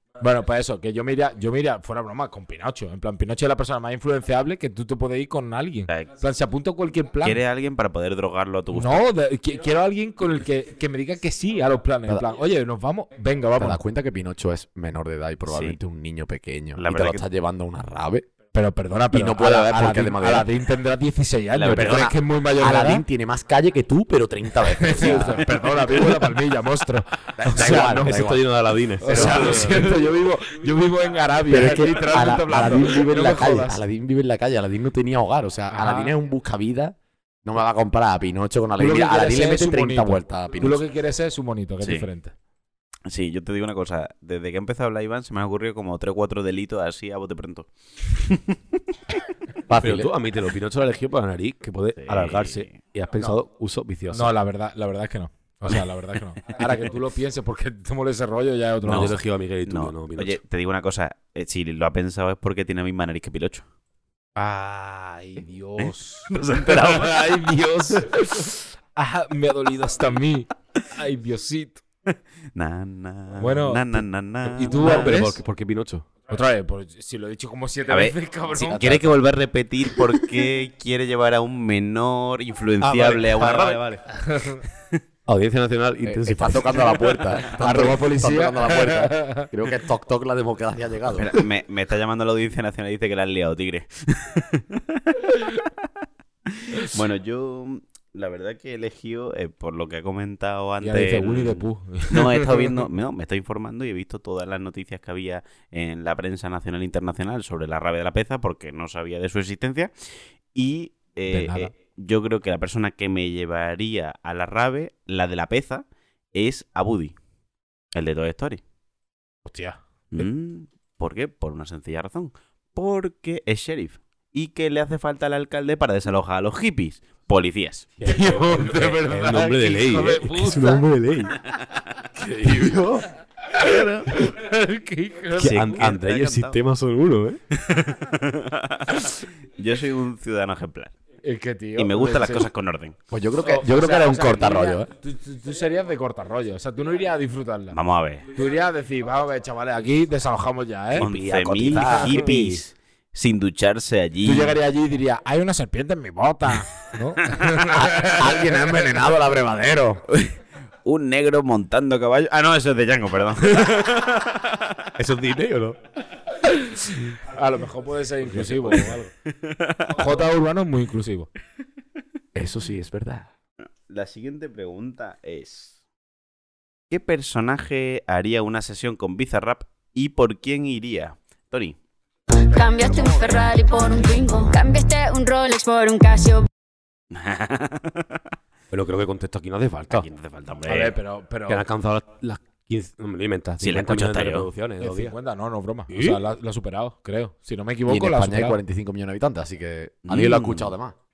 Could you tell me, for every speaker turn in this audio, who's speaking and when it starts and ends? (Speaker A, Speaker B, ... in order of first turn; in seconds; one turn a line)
Speaker A: 0.2-7.4
Speaker B: 7.2-9.0
Speaker A: 8.7-13.8
Speaker C: 13.6-18.3
Speaker B: 15.5-15.8
Speaker B: 16.8-17.2
Speaker A: 18.5-23.0
Speaker C: 19.1-20.5
Speaker B: 21.6-22.1
Speaker C: 21.7-25.5
Speaker A: 24.8-28.2
Speaker C: 27.3-28.5
Speaker D: 27.5-29.9
Speaker A: 29.0-33.8
Speaker C: 29.0-29.8
Speaker C: 31.5-40.9
Speaker A: 35.7-36.1
Speaker A: 38.8-42.3
Speaker B: 41.8-42.0
Speaker B: 43.1-48.6
Speaker C: 49.7-50.1
Speaker D: 49.8-54.3
Speaker B: 52.0-52.7
Speaker A: 54.1-59.2
Speaker D: 58.8-60.4
Speaker B: 58.9-63.6
Speaker A: 64.3-71.8
Speaker B: 65.8-67.5
Speaker B: 72.5-75.2
Speaker A: 73.4-75.4
Speaker D: 74.7-76.1
Speaker A: 76.3-78.9
Speaker B: 77.9-83.8
Speaker C: 78.5-79.1
Speaker D: 82.8-84.0
Speaker A: 84.3-84.6
Speaker D: 85.3-86.7
Speaker C: 86.0-91.3
Speaker A: 87.5-89.5
Speaker B: 91.2-95.3
Speaker B: 96.7-117.1
Speaker A: 100.8-102.8
Speaker A: 111.3-111.7
Speaker B: 117.9-118.6
Speaker A: 119.4-120.2
Speaker B: 120.1-128.0
Speaker D: 128.0-131.4
Speaker A: 128.1-130.9
Speaker D: 132.2-133.1
Speaker A: 133.5-135.9
Speaker B: 133.6-134.1
Speaker D: 135.4-137.4
Speaker B: 135.4-136.6
Speaker B: 137.6-140.9
Speaker A: 141.2-142.4
Speaker B: 141.8-143.0
Speaker C: 143.1-144.9
Speaker A: 143.4-147.8
Speaker B: 147.7-148.2
Speaker A: 148.3-151.1
Speaker B: 150.9-154.6
Speaker D: 151.0-152.6
Speaker C: 151.5-152.1
Speaker A: 154.2-158.4
Speaker C: 157.6-160.0
Speaker B: 160.1-164.7
Speaker D: 165.0-165.8
Speaker A: 166.4-169.1
Speaker D: 168.2-169.0
Speaker B: 169.4-169.9
Speaker A: 169.9-171.3
Speaker D: 172.3-173.2
Speaker C: 172.6-173.2
Speaker B: 173.9-175.7
Speaker B: 176.9-181.8
Speaker E: 182.3-186.5
Speaker C: 182.8-183.3
Speaker B: 187.1-188.2
Speaker D: 188.7-190.1
Speaker B: 189.9-190.9
Speaker A: 190.7-191.7
Speaker D: 191.5-195.1
Speaker B: 193.6-194.5
Speaker A: 194.8-198.6
Speaker D: 195.9-196.2
Speaker C: 197.8-200.9
Speaker B: 200.1-200.7